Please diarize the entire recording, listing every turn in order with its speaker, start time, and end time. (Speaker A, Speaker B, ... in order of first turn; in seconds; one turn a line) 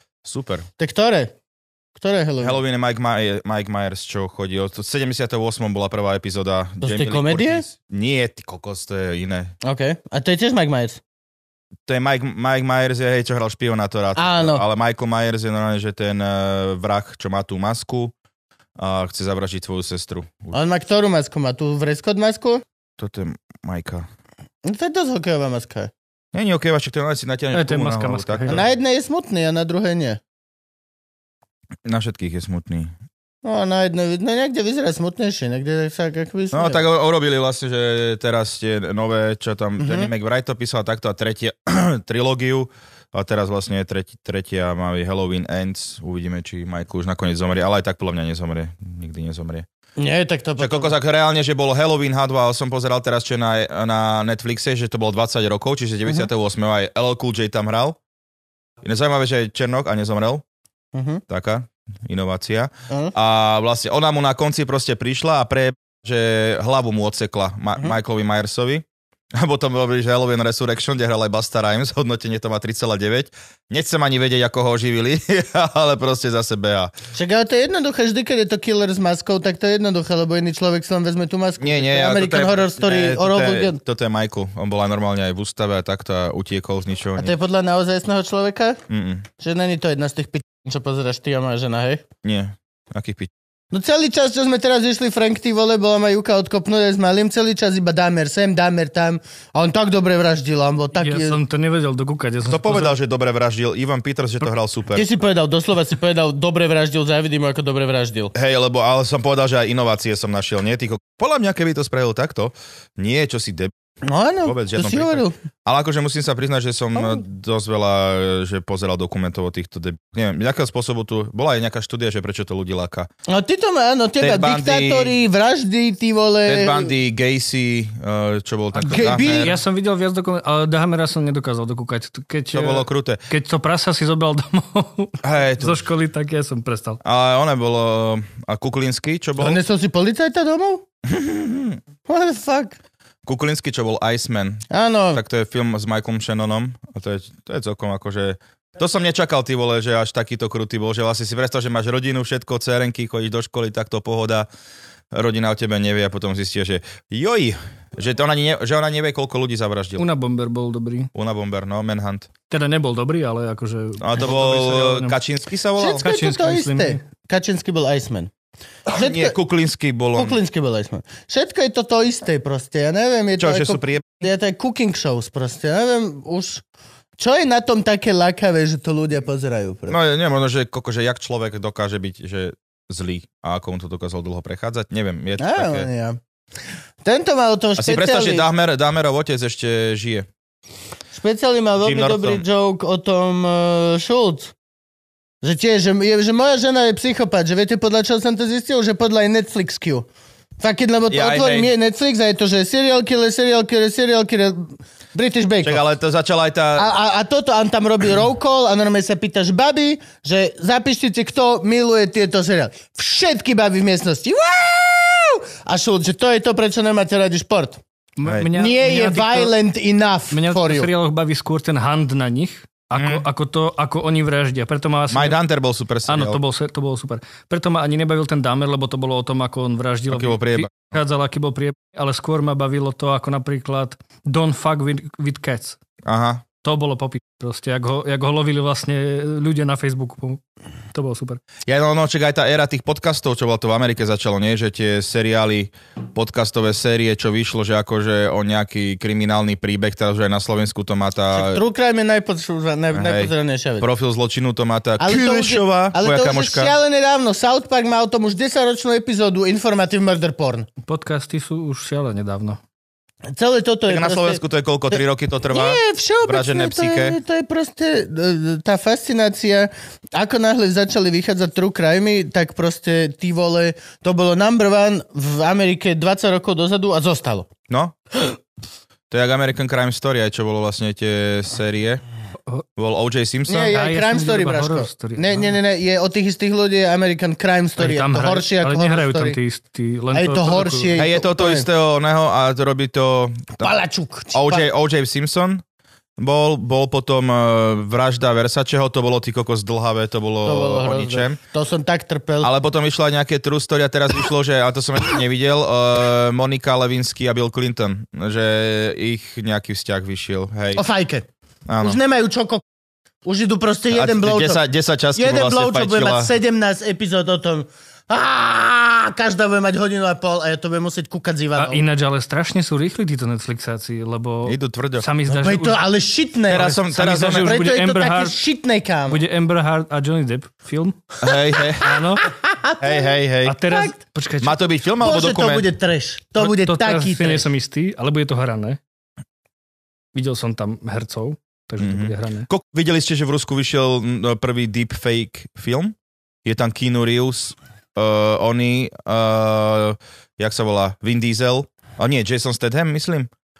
Speaker A: 0.2-0.7
Speaker B: 0.8-1.3
Speaker B: 1.9-2.6
Speaker A: 2.4-9.5
Speaker B: 6.8-7.6
Speaker B: 9.6-11.0
Speaker A: 11.9-18.1
Speaker B: 14.2-14.6
Speaker A: 18.8-20.6
Speaker B: 20.5-22.6
Speaker A: 23.0-24.1
Speaker B: 24.6-25.9
Speaker A: 26.3-28.7
Speaker C: 27.5-28.6
Speaker B: 28.5-30.2
Speaker A: 31.8-32.9
Speaker B: 33.4-36.8
Speaker A: 36.5-49.6
Speaker B: 39.8-40.1
Speaker B: 50.0-50.9
Speaker A: 50.6-58.0
Speaker A: 58.8-60.4
Speaker B: 60.9-61.2
Speaker A: 61.3-76.9
Speaker B: 62.9-63.1
Speaker B: 77.1-83.8
Speaker A: 81.6-87.3
Speaker B: 87.2-88.8
Speaker A: 88.9-89.2
Speaker B: 89.4-92.0
Speaker A: 92.2-93.3
Speaker B: 93.7-101.4
Speaker C: 101.0-102.9
Speaker A: 102.5-105.1
Speaker B: 104.9-108.3
Speaker A: 108.3-113.7
Speaker B: 114.0-115.3
Speaker A: 114.4-123.1
Speaker B: 116.9-117.2
Speaker B: 123.3-126.9
Speaker A: 124.2-125.1
Speaker A: 126.5-129.5
Speaker C: 128.7-137.0
Speaker B: 128.9-129.5
Speaker A: 132.5-133.2
Speaker A: 135.2-135.8
Speaker A: 137.0-139.6
Speaker B: 139.4-140.8
Speaker A: 141.1-141.8
Speaker B: 142.1-142.8
Speaker A: 143.2-154.5
Speaker B: 144.7-145.2
Speaker A: 155.1-160.0
Speaker C: 160.0-161.1
Speaker A: 161.1-162.3
Speaker C: 162.5-165.2
Speaker A: 164.0-166.1
Speaker B: 165.8-168.3
Speaker C: 166.0-167.0
Speaker B: 168.9-169.3
Speaker A: 168.9-170.4
Speaker B: 170.2-176.6
Speaker A: 173.4-174.2
Speaker B: 177.2-180.0
Speaker A: 179.9-185.9
Speaker B: 185.4-186.2
Speaker B: 187.0-188.4
Speaker A: 187.8-190.3
Speaker B: 191.1-194.5
Speaker A: 191.8-192.4
Speaker B: 195.4-200.1
Speaker B: 200.6-205.8
Speaker A: 201.1-201.7
Speaker A: 205.6-206.9
Speaker B: 206.8-217.8
Speaker C: 218.2-219.5
Speaker B: 218.5-220.9
Speaker C: 220.3-225.4
Speaker A: 222.9-223.2
Speaker A: 225.1-226.4
Speaker C: 226.1-235.8
Speaker A: 230.1-230.9
Speaker A: 236.0-236.4
Speaker C: 236.6-240.4
Speaker C: 240.9-241.4
Speaker A: 241.7-251.6
Speaker B: 251.3-253.9
Speaker A: 252.9-256.7
Speaker B: 255.0-260.7
Speaker C: 260.8-262.6
Speaker B: 263.3-264.4
Speaker A: 263.9-267.2
Speaker B: 265.5-277.5
Speaker A: 277.7-277.9
Speaker A: 279.1-282.0
Speaker A: 282.8-283.7
Speaker B: 283.5-289.4
Speaker C: 283.7-285.5
Speaker C: 287.8-290.9
Speaker B: 290.1-291.7
Speaker A: 290.9-293.7
Speaker B: 293.6-294.6
Speaker A: 294.3-295.6
Speaker A: 296.2-301.4
Speaker B: 300.4-302.5
Speaker A: 302.4-310.8
Speaker B: 310.7-311.3
Speaker A: 311.7-312.0
Speaker B: 311.8-312.6
Speaker B: 313.2-314.6
Speaker A: 313.9-316.3
Speaker B: 315.1-321.8
Speaker C: 321.6-325.8
Speaker A: 324.4-325.1
Speaker B: 325.2-329.2
Speaker A: 326.5-327.6
Speaker C: 326.8-328.4
Speaker C: 329.1-331.2
Speaker A: 331.2-331.9
Speaker C: 331.8-332.3
Speaker B: 332.2-333.1
Speaker A: 332.8-333.6
Speaker C: 333.4-334.7
Speaker B: 333.7-334.0
Speaker A: 334.4-335.7
Speaker B: 335.0-337.5
Speaker C: 336.4-338.8
Speaker C: 340.1-342.5
Speaker A: 341.8-353.3